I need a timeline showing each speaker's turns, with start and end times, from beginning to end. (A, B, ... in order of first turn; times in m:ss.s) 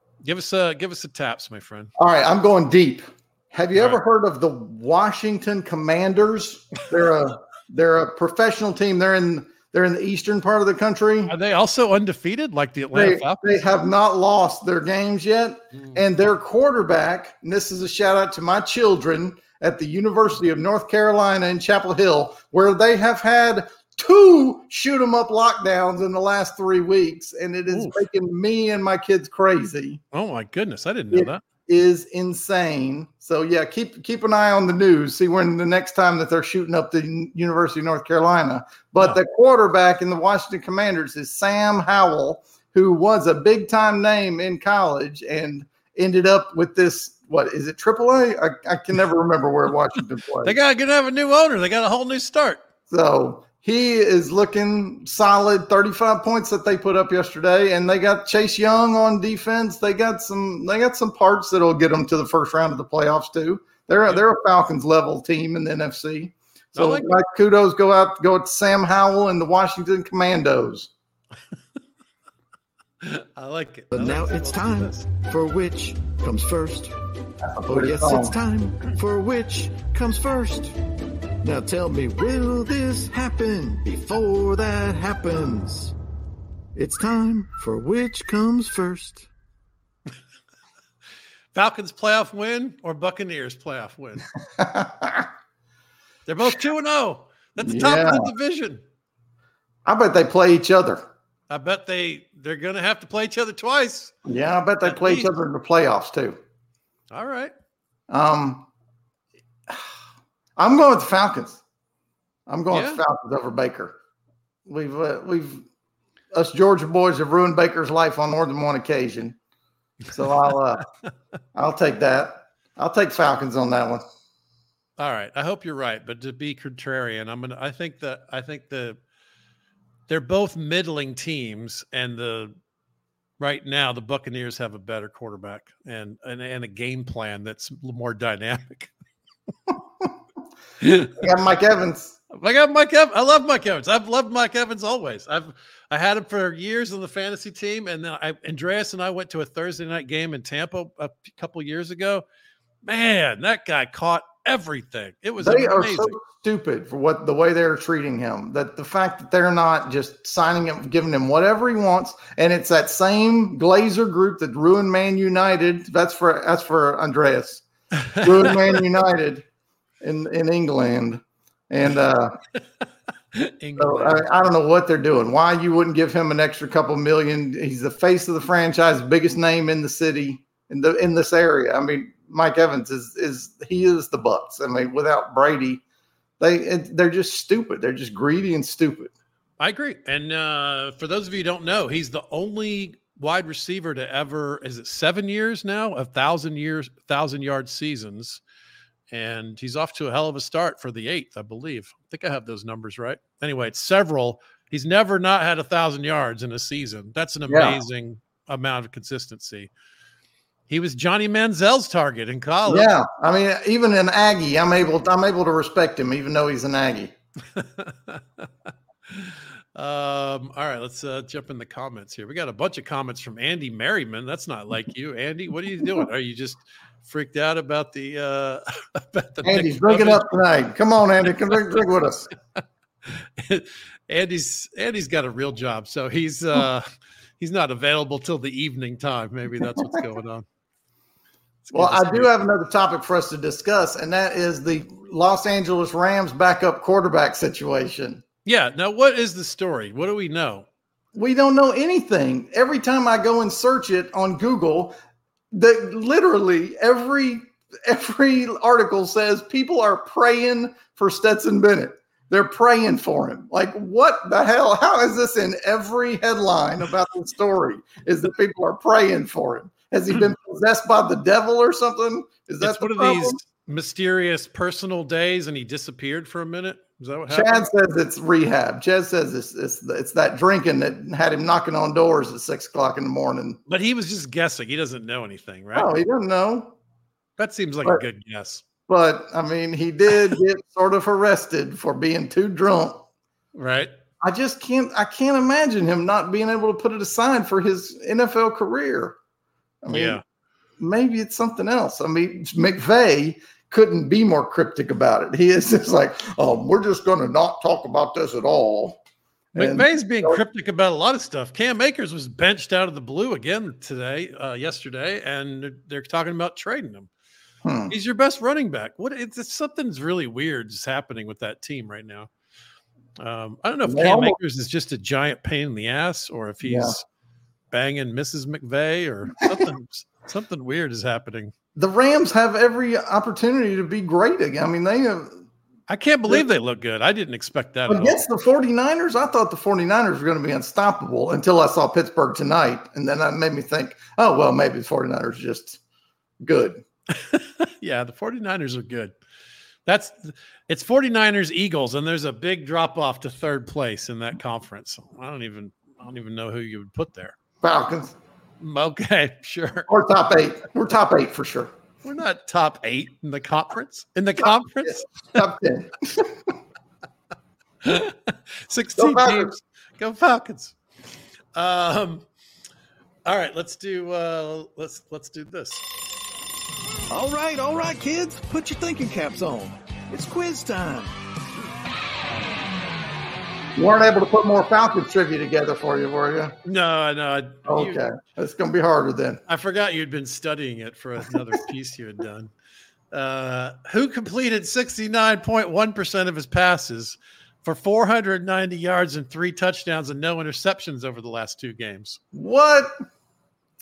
0:00.2-0:01.9 A
0:02.0-0:11.3 B
0:03.7-0:04.0 A
0:11.3-0:13.6 A
0:12.9-0:30.0 B
0:27.7-0:28.0 A
0:30.1-0:31.4 A
0:31.1-0:50.6 B
0:50.4-0:52.6 A
0:52.9-1:10.9 B
1:06.7-1:07.1 A
1:13.0-1:15.0 A
1:13.9-1:16.9 C
1:17.5-1:18.4 B
1:17.7-1:20.7 C
1:21.4-1:25.9 C
1:26.7-1:29.3 C
1:31.5-1:34.2 A
1:34.6-1:35.3 B
1:36.2-1:38.8 A
1:37.6-1:38.3 B
1:39.8-1:41.0 B
1:41.5-1:44.1 A
1:44.2-1:46.4 B
1:44.8-1:45.3 A
1:47.1-1:47.5 A
1:48.1-1:48.7 B
1:50.6-1:51.6 B
1:52.5-1:53.9 B
1:52.7-1:53.0 A
1:54.7-1:55.6 B
1:56.3-1:59.4 B
2:00.1-2:00.9 B
2:01.5-2:04.0 B
2:05.0-2:09.0 A
2:10.1-2:12.5 A
2:13.4-2:18.9 A
2:20.8-2:21.1 A
2:21.2-2:22.1 B
2:22.3-2:32.2 A
2:32.8-2:36.1 A
2:35.4-2:47.6 B
2:48.1-2:48.4 A
2:48.2-2:49.4 B
2:50.0-2:52.4 B
2:53.3-2:54.2 A
2:53.8-3:05.8 B
3:06.4-3:09.1 B
3:09.6-3:18.4 A
3:19.1-3:29.7 A
3:27.5-3:27.8 B
3:30.7-3:32.9 A
3:32.7-3:37.1 B
3:37.6-3:38.5 A
3:39.1-3:50.3 A
3:49.4-3:52.3 B
3:53.0-3:56.9 A
3:57.4-4:00.4 A
4:01.6-4:02.5 A
4:01.7-4:08.2 B
4:08.4-4:10.6 A
4:11.1-4:15.0 B
4:15.5-4:33.4 B
4:32.6-4:37.7 A
4:37.3-4:43.6 B
4:43.7-4:45.9 A
4:45.7-4:46.8 B
4:47.4-4:48.6 A
4:48.9-4:53.0 B
4:53.5-4:53.9 A
4:54.2-4:59.1 B
4:59.8-5:00.2 B
4:59.9-5:00.2 A
5:00.8-5:09.0 B
5:09.5-5:10.4 B
5:09.5-5:17.1 A
5:17.6-5:17.9 B
5:17.9-5:22.3 A
5:23.2-5:27.0 A
5:23.9-5:24.4 B
5:26.6-5:27.0 B
5:27.7-5:31.5 A
5:31.8-5:35.4 B
5:35.9-5:38.2 A
5:37.9-5:45.8 B
5:46.4-5:46.8 B
5:47.1-5:49.1 A
5:49.8-5:57.4 A
5:57.6-5:58.1 B
5:58.6-5:59.9 A
5:59.9-6:01.7 B
6:02.0-6:05.2 A
6:04.8-6:06.3 B
6:07.8-6:10.7 A
6:09.0-6:09.6 B
6:11.5-6:12.2 A
6:13.2-6:15.8 A
6:17.1-6:21.1 C
6:23.8-6:26.6 B
6:26.6-6:28.0 A
6:27.6-6:29.4 B
6:29.5-6:32.5 A
6:33.1-6:42.2 A
6:42.3-6:42.9 B